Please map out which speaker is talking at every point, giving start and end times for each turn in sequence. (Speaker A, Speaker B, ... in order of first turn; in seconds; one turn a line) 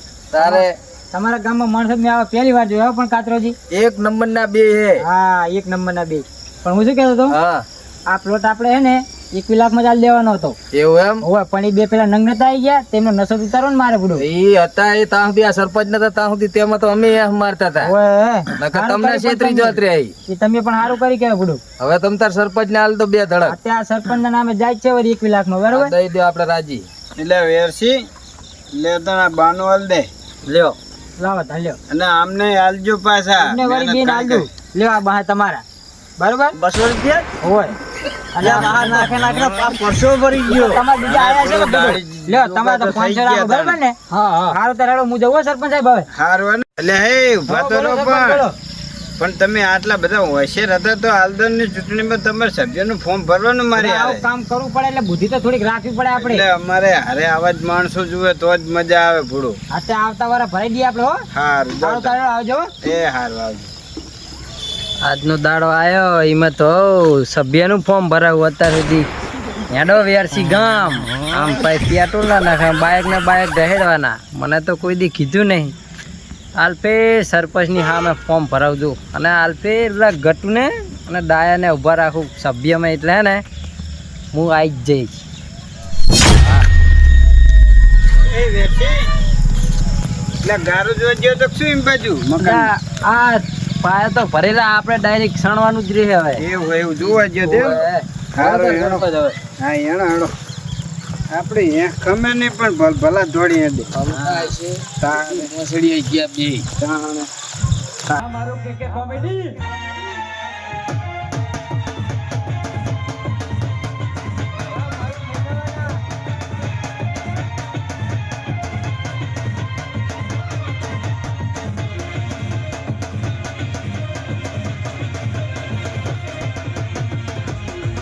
Speaker A: 0.3-0.8
Speaker B: 0.4-3.5
Speaker A: 3.7-5.0
Speaker B: 5.0-7.3
Speaker A: 7.3-7.6
Speaker B: 8.1-10.6
Speaker A: 10.7-11.2
Speaker B: 11.2-14.2
Speaker A: 14.2-17.9
Speaker B: 17.8-21.6
Speaker A: 18.6-20.1
Speaker A: 21.8-23.5
Speaker B: 23.5-25.9
Speaker A: 25.7-26.9
Speaker C: 27.2-28.1
Speaker C: 28.7-30.1
Speaker B: 31.2-31.8
Speaker C: 31.9-34.5
Speaker B: 33.4-35.6
Speaker B: 36.2-36.6
Speaker C: 36.6-37.2
Speaker B: 37.4-37.7
Speaker B: 38.3-39.1
Speaker C: 38.4-43.8
Speaker A: 38.5-39.1
Speaker B: 40.5-46.1
Speaker A: 44.1-44.5
Speaker C: 46.1-48.4
Speaker B: 47.5-48.5
Speaker C: 49.2-54.2
Speaker B: 53.7-56.4
Speaker C: 56.2-59.6
Speaker B: 59.7-61.2
Speaker C: 61.3-62.2
Speaker B: 61.8-62.7
Speaker C: 62.8-63.7
Speaker A: 65.0-69.1
Speaker A: 69.7-75.7
Speaker A: 76.5-83.4
Speaker A: 84.3-85.2
Speaker A: 86.3-86.7
Speaker C: 88.3-89.1
Speaker C: 90.4-92.7
Speaker A: 92.4-96.4
Speaker C: 96.4-97.8
Speaker A: 97.1-99.3
Speaker C: 98.3-99.1
Speaker C: 99.6-100.3
Speaker C: 101.3-104.5
Speaker A: 103.9-106.7
Speaker C: 105.0-105.5
Speaker C: 106.8-107.3
Speaker B: 108.2-109.5
Speaker B: 115.0-115.7